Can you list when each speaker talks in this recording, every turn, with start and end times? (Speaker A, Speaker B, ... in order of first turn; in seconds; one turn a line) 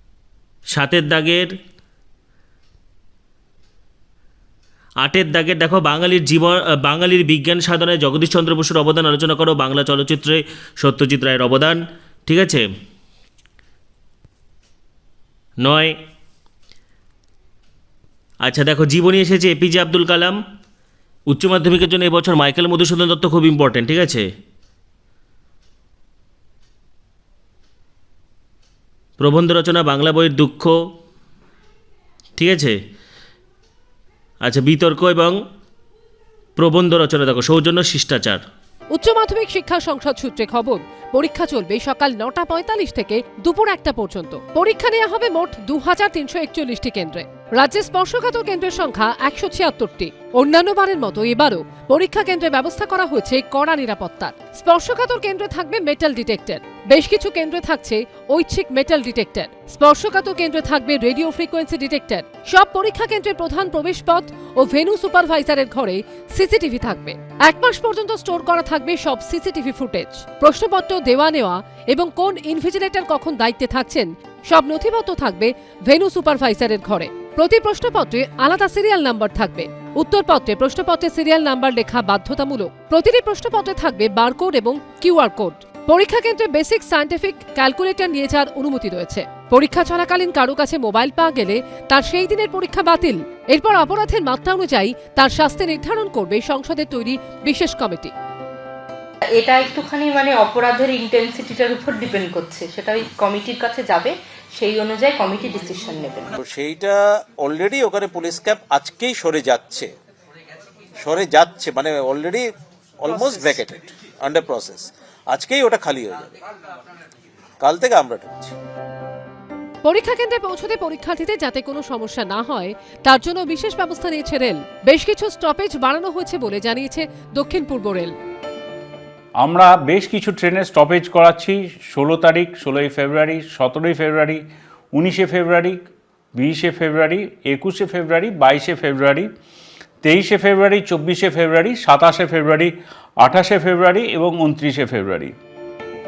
Speaker A: 0.7-1.5
Speaker A: 5.0-12.6
Speaker A: 15.6-15.9
Speaker A: 18.4-20.4
Speaker A: 21.3-24.3
Speaker A: 29.2-30.8
Speaker A: 32.4-32.8
Speaker A: 34.4-35.4
Speaker A: 36.6-38.4
Speaker B: 38.9-98.1
Speaker C: 99.4-106.3
Speaker D: 106.4-109.9
Speaker D: 111.0-112.5
Speaker D: 113.0-116.3
Speaker D: 117.6-118.5
Speaker B: 119.8-128.1
Speaker E: 129.4-134.4
Speaker E: 134.9-135.8
Speaker E: 136.3-139.3
Speaker E: 140.0-145.3